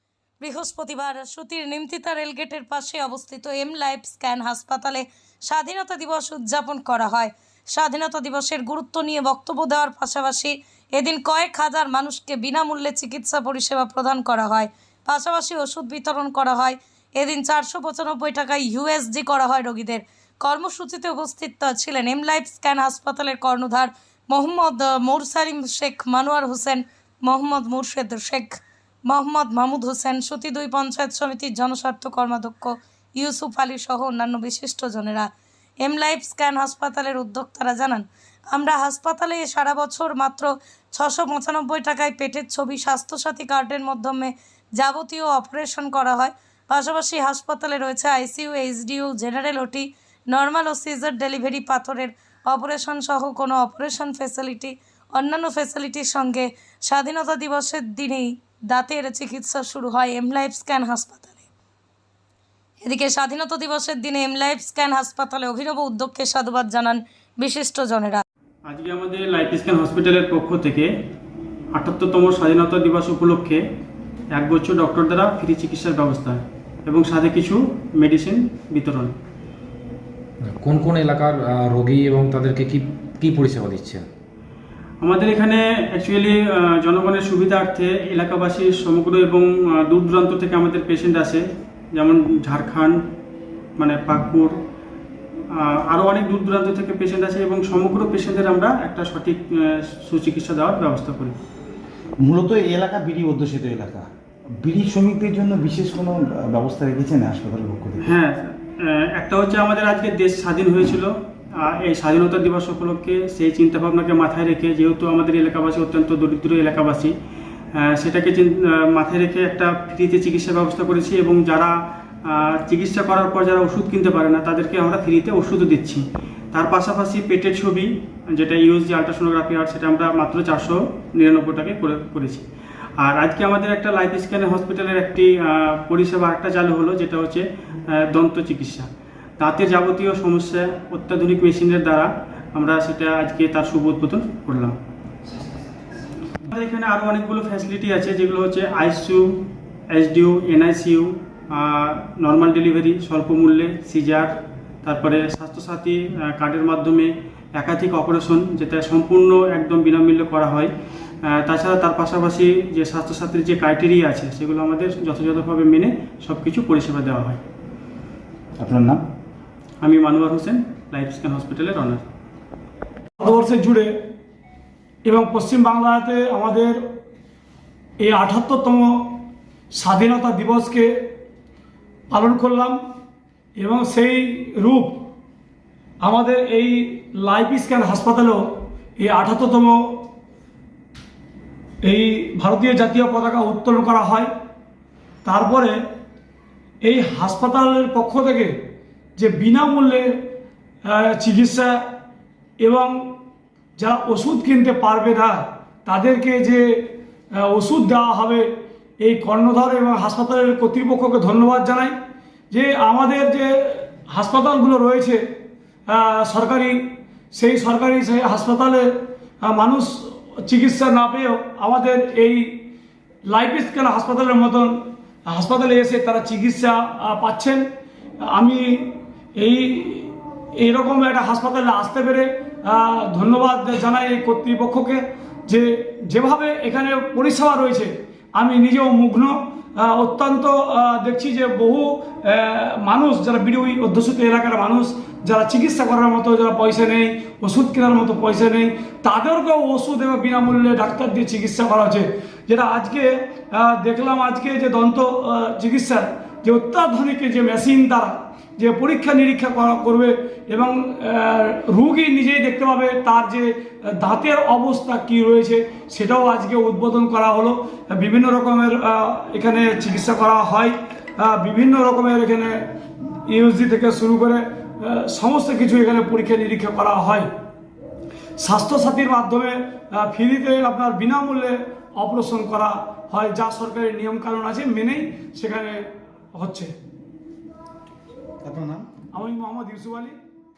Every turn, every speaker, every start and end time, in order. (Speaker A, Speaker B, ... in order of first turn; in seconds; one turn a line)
Speaker A: 0.4-35.3
Speaker A: 35.8-61.5
Speaker A: 62.8-68.2
Speaker B: 68.7-70.9
Speaker B: 71.8-73.6
Speaker B: 74.3-79.1
Speaker C: 80.4-84.0
Speaker B: 85.0-93.0
Speaker B: 93.8-94.5
Speaker B: 95.5-101.4
Speaker D: 102.2-104.1
Speaker D: 104.6-108.2
Speaker B: 108.0-117.1
Speaker B: 117.8-121.7
Speaker B: 122.3-126.0
Speaker B: 126.5-132.4
Speaker B: 133.0-138.9
Speaker B: 139.4-144.8
Speaker B: 146.5-149.3
Speaker B: 149.9-154.3
Speaker B: 154.8-160.7
Speaker B: 161.2-167.4
Speaker D: 168.6-169.0
Speaker B: 169.8-172.0
Speaker E: 173.2-173.9
Speaker E: 175.1-176.8
Speaker E: 178.0-181.1
Speaker E: 182.1-182.8
Speaker E: 183.6-185.0
Speaker E: 186.0-190.1
Speaker E: 191.8-194.3
Speaker E: 195.2-195.8
Speaker E: 196.8-198.6
Speaker E: 199.2-200.2
Speaker E: 200.8-201.8
Speaker E: 202.6-203.2
Speaker E: 203.8-212.0
Speaker E: 212.5-215.2
Speaker E: 215.9-222.7
Speaker E: 223.3-227.7
Speaker E: 228.2-272.7
Speaker E: 273.3-277.3
Speaker E: 278.4-286.7
Speaker D: 288.4-288.9
Speaker E: 289.1-290.2